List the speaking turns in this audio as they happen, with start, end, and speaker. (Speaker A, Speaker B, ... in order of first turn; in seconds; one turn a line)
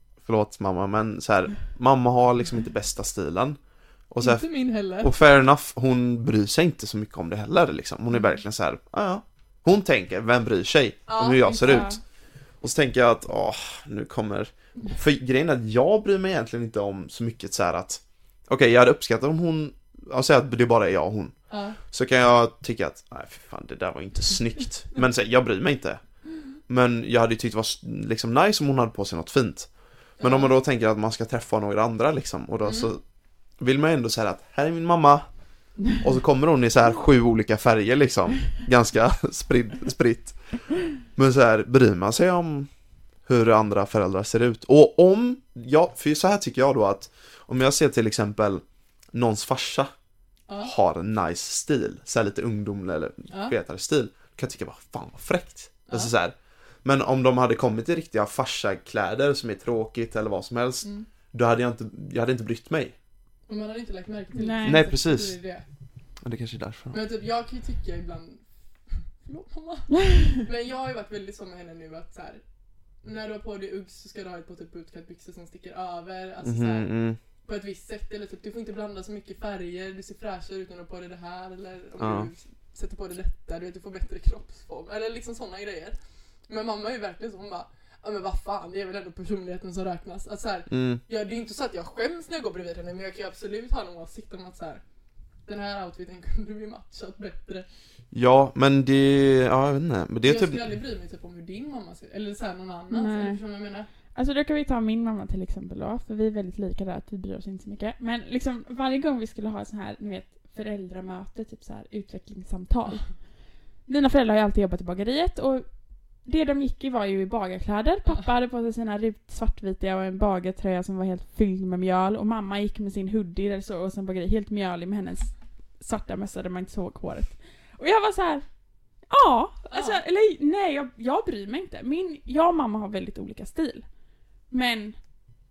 Speaker A: 0.2-3.6
Speaker A: 4.1-4.4
Speaker B: 4.2-5.1
Speaker A: 5.0-11.9
Speaker B: 11.1-12.0
Speaker C: 11.6-11.9
Speaker A: 12.6-21.3
Speaker B: 21.5-21.8
Speaker A: 21.9-26.0
Speaker A: 26.7-33.0
Speaker B: 30.2-30.5
Speaker B: 32.6-32.9
Speaker A: 33.6-35.2
Speaker A: 36.0-40.4
Speaker A: 41.1-42.7
Speaker A: 43.2-49.9
Speaker B: 50.5-50.7
Speaker A: 50.6-62.9
Speaker B: 53.3-53.5
Speaker B: 63.5-65.7
Speaker C: 64.3-64.8
Speaker A: 64.6-65.4
Speaker A: 66.2-67.0
Speaker B: 66.9-68.4
Speaker B: 69.2-72.4
Speaker B: 73.0-76.9
Speaker A: 76.4-77.2
Speaker B: 77.4-86.0
Speaker A: 82.0-82.3
Speaker B: 86.5-94.8
Speaker A: 90.7-91.0
Speaker B: 95.5-97.7
Speaker A: 98.1-100.6
Speaker B: 100.2-103.9
Speaker C: 102.9-103.4
Speaker C: 104.1-113.1
Speaker C: 113.8-115.7
Speaker C: 116.2-128.4
Speaker C: 129.1-133.8
Speaker B: 129.7-130.0
Speaker C: 134.5-134.9